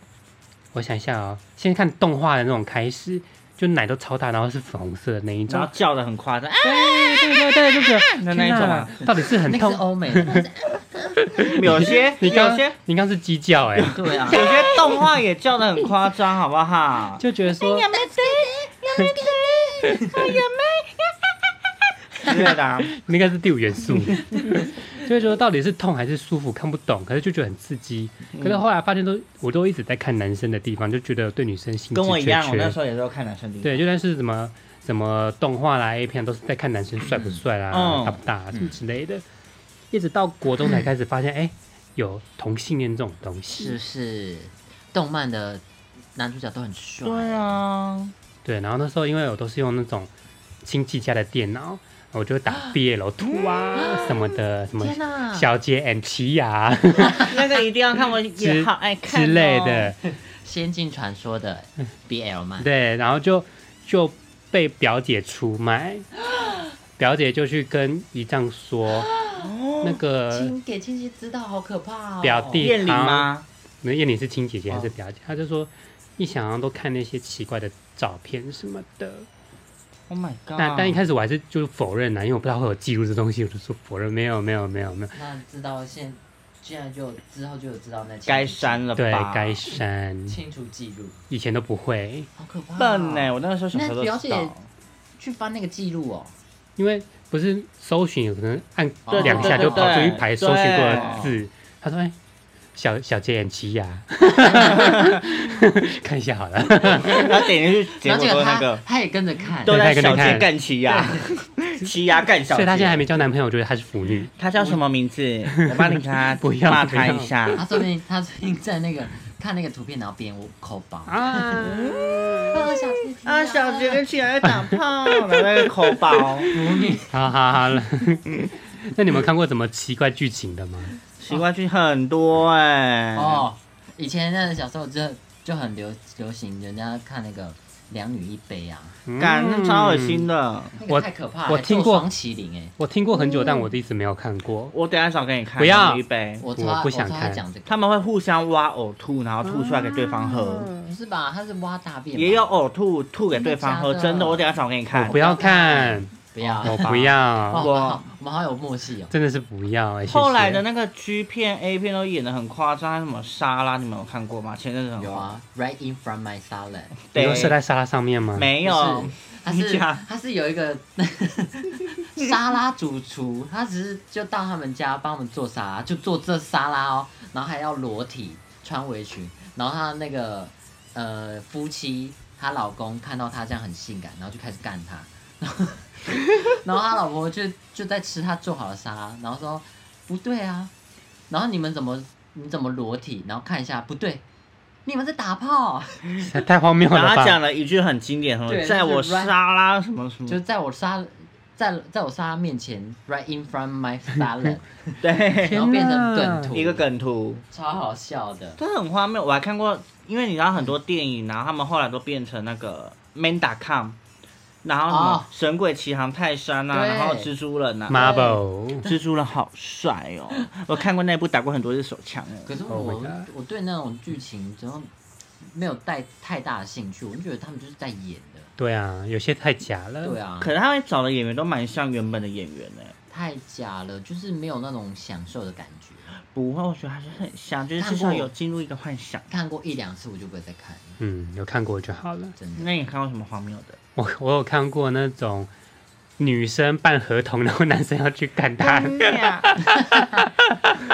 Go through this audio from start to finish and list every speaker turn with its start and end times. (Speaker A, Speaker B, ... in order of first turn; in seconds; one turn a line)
Speaker A: 0.7-5.7
Speaker B: 5.5-9.1
Speaker A: 6.6-10.4
Speaker C: 9.4-11.9
Speaker A: 11.2-14.0
Speaker B: 11.5-12.8
Speaker B: 13.8-21.3
Speaker C: 13.9-15.1
Speaker A: 17.2-17.9
Speaker C: 17.9-20.4
Speaker C: 22.2-22.5
Speaker B: 22.2-22.9
Speaker A: 22.9-32.8
Speaker B: 28.3-28.6
Speaker B: 31.9-33.8
Speaker A: 33.6-39.2
Speaker C: 37.1-37.4
Speaker B: 37.7-38.2
Speaker C: 38.5-38.8
Speaker A: 39.9-43.8
Speaker C: 43.5-45.6
Speaker C: 46.1-47.6
Speaker B: 47.0-48.1
Speaker A: 48.4-50.1
Speaker A: 50.6-57.3
Speaker C: 53.8-54.2
Speaker C: 54.8-55.5
Speaker B: 57.1-59.9
Speaker A: 58.4-60.0
Speaker C: 60.1-62.7
Speaker A: 62.6-66.1
Speaker A: 67.0-69.1
Speaker C: 69.0-69.5
Speaker B: 69.3-70.0
Speaker A: 69.8-70.5
Speaker C: 70.3-72.8
Speaker A: 72.2-73.3
Speaker B: 72.6-73.5
Speaker A: 73.8-79.3
Speaker B: 80.1-81.0
Speaker A: 80.6-85.2
Speaker C: 85.1-88.9
Speaker B: 88.3-89.6
Speaker A: 89.0-90.4
Speaker C: 90.3-91.2
Speaker A: 91.3-92.3
Speaker C: 92.3-94.5
Speaker B: 92.8-94.6
Speaker C: 95.2-96.3
Speaker A: 96.8-102.1
Speaker C: 99.0-100.2
Speaker B: 99.1-101.3
Speaker C: 100.9-101.3
Speaker A: 102.7-107.3
Speaker C: 104.4-104.9
Speaker B: 104.8-105.1
Speaker C: 106.9-107.5
Speaker B: 107.0-108.8
Speaker C: 108.0-110.3
Speaker B: 109.6-113.1
Speaker A: 109.7-110.5
Speaker C: 110.8-111.3
Speaker A: 112.5-114.3
Speaker B: 114.4-117.7
Speaker A: 115.5-117.3
Speaker C: 117.5-124.0
Speaker A: 121.1-122.6
Speaker B: 121.6-122.6
Speaker B: 123.2-126.5
Speaker A: 124.4-126.2
Speaker C: 126.5-127.3
Speaker A: 127.1-130.9
Speaker B: 131.2-133.4
Speaker C: 133.1-139.0
Speaker A: 139.1-140.3
Speaker B: 139.2-140.8
Speaker C: 140.8-143.7
Speaker A: 140.9-142.1
Speaker A: 142.8-144.7
Speaker B: 144.7-146.5
Speaker A: 145.6-146.0
Speaker C: 146.4-147.7
Speaker A: 146.6-147.4
Speaker B: 147.7-150.7
Speaker A: 149.4-150.9
Speaker C: 150.8-152.6
Speaker B: 152.1-155.2
Speaker C: 153.3-159.1
Speaker A: 155.0-157.7
Speaker B: 156.4-158.1
Speaker A: 159.1-160.6
Speaker B: 160.1-165.3
Speaker C: 165.0-166.9
Speaker B: 167.1-167.6
Speaker A: 167.1-168.5
Speaker B: 168.3-170.0
Speaker C: 168.6-190.7
Speaker C: 191.3-194.2
Speaker C: 194.8-196.2
Speaker A: 196.2-197.4
Speaker B: 196.9-200.4
Speaker C: 198.5-199.3
Speaker C: 200.3-206.8
Speaker B: 205.0-205.6
Speaker A: 205.4-206.5
Speaker B: 206.5-207.4
Speaker C: 207.5-208.6
Speaker B: 208.6-214.0
Speaker B: 214.6-222.5
Speaker C: 214.9-215.3
Speaker C: 216.7-217.3
Speaker A: 217.9-218.8
Speaker C: 217.9-219.0
Speaker C: 222.4-224.9
Speaker A: 222.7-223.2
Speaker C: 225.4-228.5
Speaker A: 228.6-230.2
Speaker C: 230.0-230.5
Speaker B: 230.4-232.9
Speaker C: 233.1-236.1
Speaker B: 236.3-239.3
Speaker C: 237.8-238.3
Speaker C: 239.3-241.0
Speaker A: 241.0-242.3
Speaker C: 242.4-242.7
Speaker B: 242.6-243.8
Speaker A: 243.9-245.5
Speaker A: 246.2-249.0
Speaker B: 248.6-249.7
Speaker A: 249.6-250.3